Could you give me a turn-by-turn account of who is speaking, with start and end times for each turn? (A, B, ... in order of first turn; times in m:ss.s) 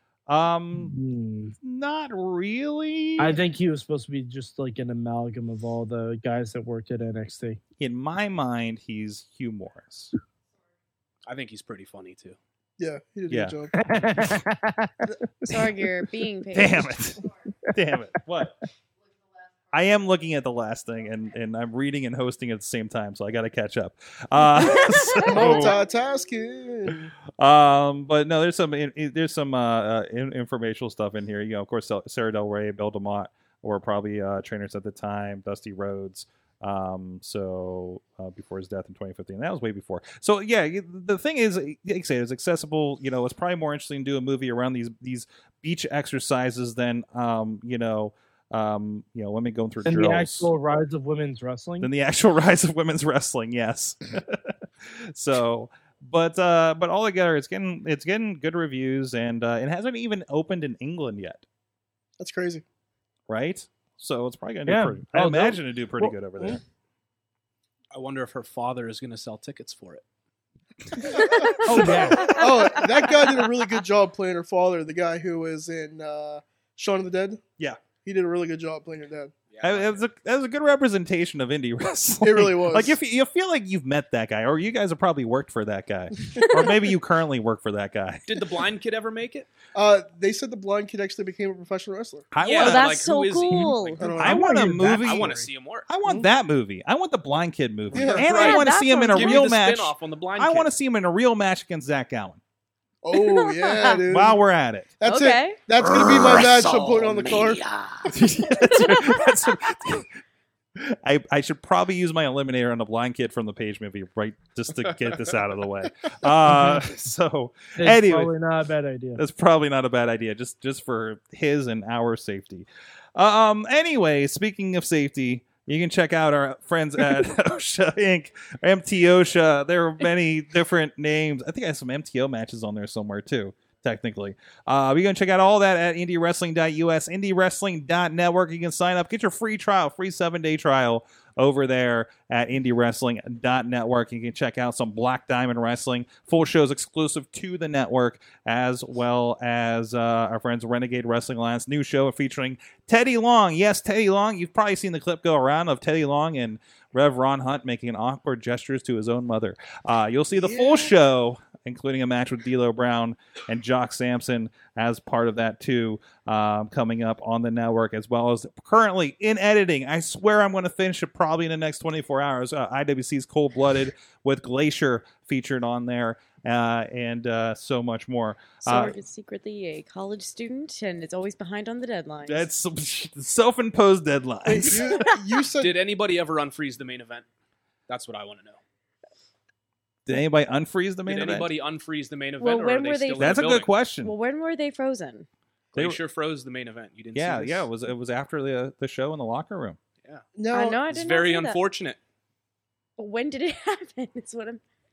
0:00.3-0:00.9 A
0:00.7-0:01.5 B
0:01.6-0:03.4 A
0:03.2-0:07.6 B
0:07.8-0:10.1 A
0:11.2-0:12.4 C
0:12.8-0:13.9 D
0:13.3-0:13.6 A
0:13.8-0:15.0 B
0:15.4-0:17.0 E
0:16.5-0:17.2 A
0:17.7-0:18.6 A
0:19.7-0:25.8 A
0:24.6-0:25.7 E
0:25.2-0:27.1 D
0:27.4-0:50.5 A
0:49.8-0:51.9 B
0:51.8-1:01.4 A
1:02.2-1:02.6 D
1:03.3-1:06.6 A
1:04.6-1:06.1 B
1:07.9-1:10.0 C
1:11.1-1:17.4 D
1:11.2-1:11.6 E
1:11.6-1:12.3 B
1:12.2-1:13.5 E
1:18.0-1:19.3 D
1:19.5-1:20.0 C
1:19.6-1:28.4 A
1:22.2-1:23.0 D
1:26.4-1:26.7 E
1:28.3-1:29.5 C
1:29.7-1:32.3 D
1:32.3-1:33.0 A
1:32.4-1:34.0 C
1:32.5-1:34.1 E
1:33.5-1:35.5 B
1:34.0-1:34.5 D
1:34.2-1:42.4 A
1:35.0-1:35.9 C
1:37.9-1:40.7 C
1:37.9-1:38.5 D
1:38.3-1:39.4 E
1:43.0-1:44.4 D
1:43.1-1:44.0 E
1:44.1-1:44.9 A
1:45.0-1:48.1 D
1:45.0-1:45.6 E
1:48.1-1:50.1 A
1:48.8-1:49.1 E
1:50.8-1:58.3 A
1:57.8-1:59.2 B
1:59.2-2:59.0 A
2:40.4-2:40.9 D
2:58.6-3:02.5 E
3:02.3-3:05.0 A
3:04.4-3:05.8 D
3:05.6-3:07.2 C
3:07.9-3:08.6 C
3:10.0-3:11.5 A
3:11.1-3:13.7 C
3:12.4-3:15.3 E
3:13.2-3:14.1 A
3:15.7-3:17.7 C
3:17.1-3:19.8 A
3:20.4-3:20.8 D
3:20.5-3:21.6 E
3:20.9-3:22.0 C
3:23.0-3:24.6 E